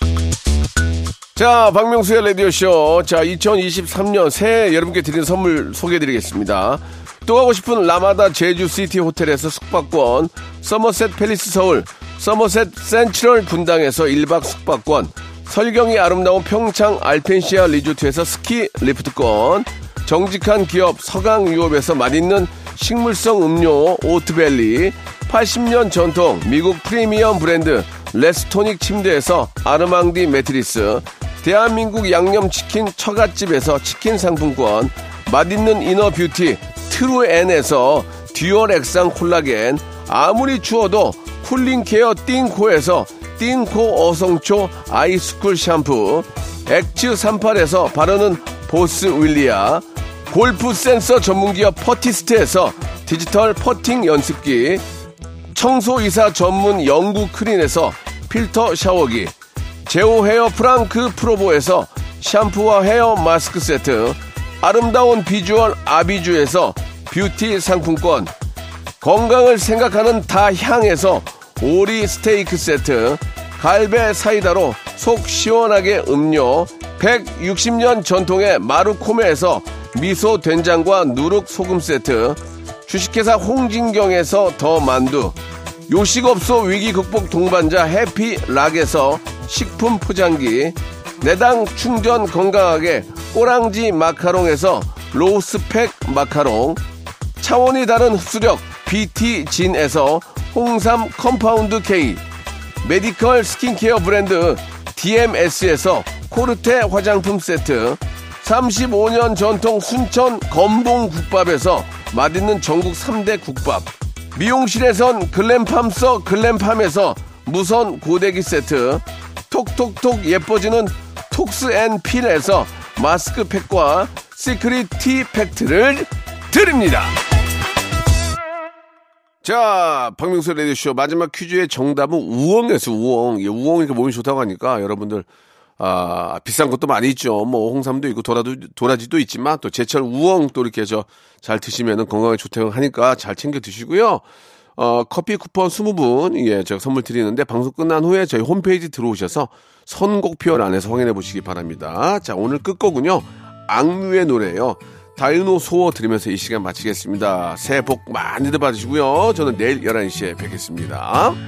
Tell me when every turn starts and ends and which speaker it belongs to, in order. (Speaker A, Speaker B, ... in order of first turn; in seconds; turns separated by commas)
Speaker A: 1.4-54.8, Speaker A: 55.5-59.3, Speaker A: 59.9-68.3, Speaker A: 69.0-85.3, Speaker A: 85.9-96.8, Speaker A: 97.4-102.2, Speaker A: 102.8-127.2, Speaker A: 129.4-135.3, Speaker A: 135.8-144.2, Speaker A: 144.8-161.4